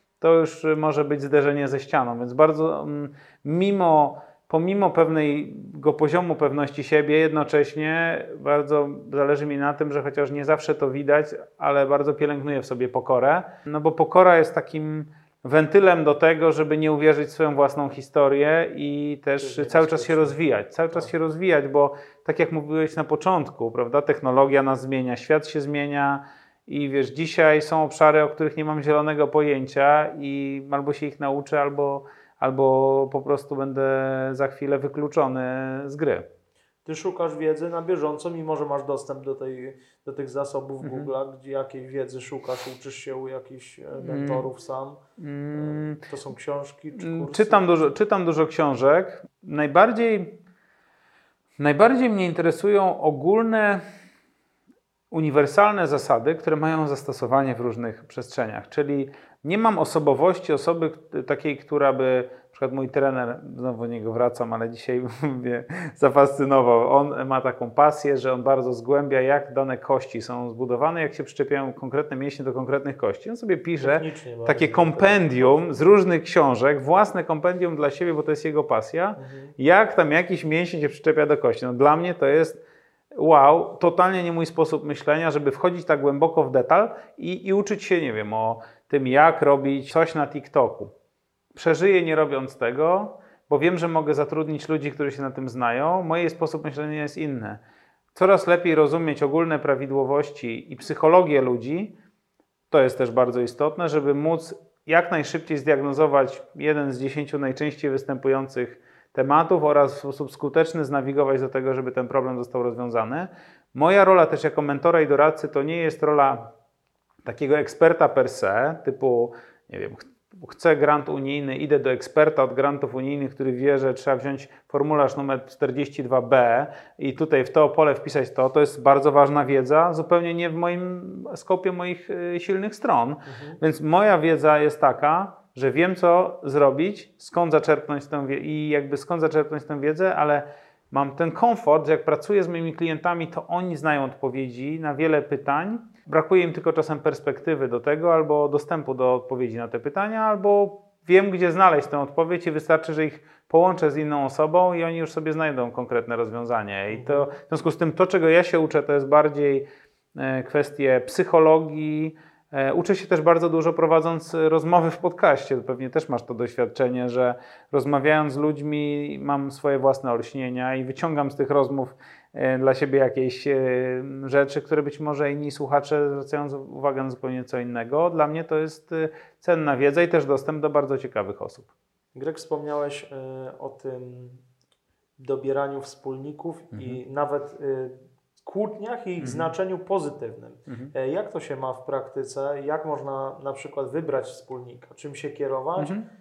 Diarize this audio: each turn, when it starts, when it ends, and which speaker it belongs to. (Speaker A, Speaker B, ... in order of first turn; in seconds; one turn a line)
Speaker A: 0.2-36.3
Speaker B: 19.4-20.4
Speaker B: 36.8-45.0
Speaker A: 40.8-41.1
Speaker A: 44.0-44.5
Speaker A: 45.2-46.0
Speaker B: 45.5-47.7
Speaker A: 47.0-50.4
Speaker A: 51.6-53.8
Speaker A: 55.1-82.6
Speaker B: 73.8-75.9
Speaker B: 79.2-79.5
Speaker A: 83.1-90.9
Speaker A: 91.5-97.6
Speaker A: 98.1-102.0
Speaker A: 102.7-116.5
Speaker A: 117.2-181.7
Speaker B: 133.3-133.6
Speaker B: 156.9-157.3
Speaker B: 182.1-184.4
Speaker B: 185.2-195.9
Speaker A: 186.7-187.0
Speaker A: 189.2-189.5
Speaker A: 190.7-190.9
Speaker A: 195.8-196.1